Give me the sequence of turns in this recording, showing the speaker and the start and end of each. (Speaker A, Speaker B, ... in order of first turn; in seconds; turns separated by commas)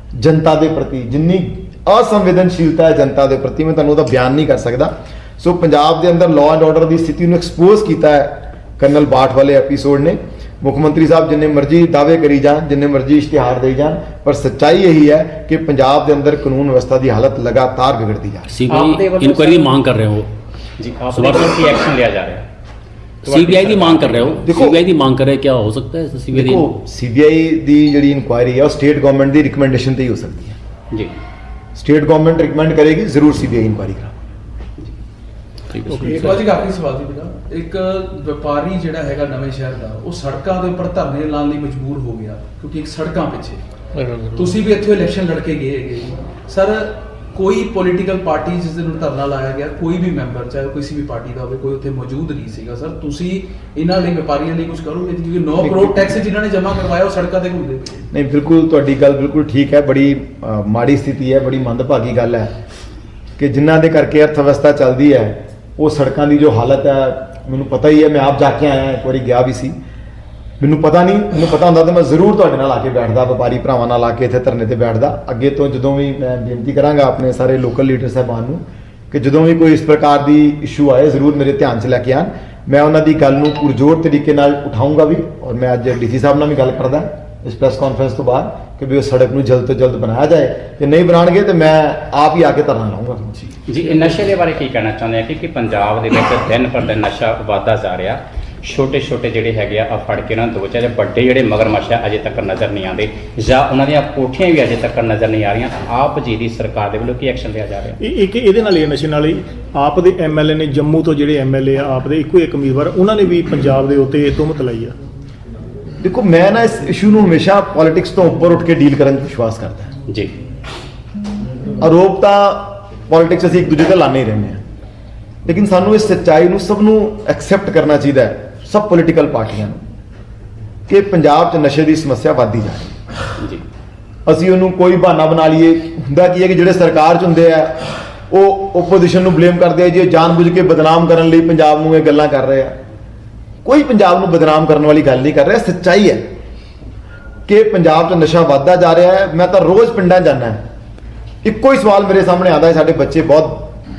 Speaker A: 0.2-18.5, Speaker B: 18.5-20.3, Speaker C: 18.7-19.7, Speaker C: 20.8-22.4, Speaker B: 21.1-21.7, Speaker B: 23.2-26.7, Speaker C: 23.3-24.2, Speaker A: 24.4-24.8, Speaker A: 26.3-30.6, Speaker A: 31.8-34.2, Speaker B: 35.7-36.4, Speaker D: 35.9-36.2, Speaker E: 36.0-43.6, Speaker E: 44.3-58.1, Speaker A: 55.6-56.1, Speaker A: 58.1-62.5, Speaker A: 63.4-69.8, Speaker A: 70.6-93.4, Speaker C: 93.7-108.0, Speaker D: 108.0-115.0, Speaker A: 116.0-119.9, Speaker A: 121.8-124.6, Speaker A: 125.5-129.8, Speaker A: 130.9-133.0, Speaker A: 134.3-142.8, Speaker A: 143.7-146.2, Speaker A: 147.5-150.6, Speaker A: 151.4-153.8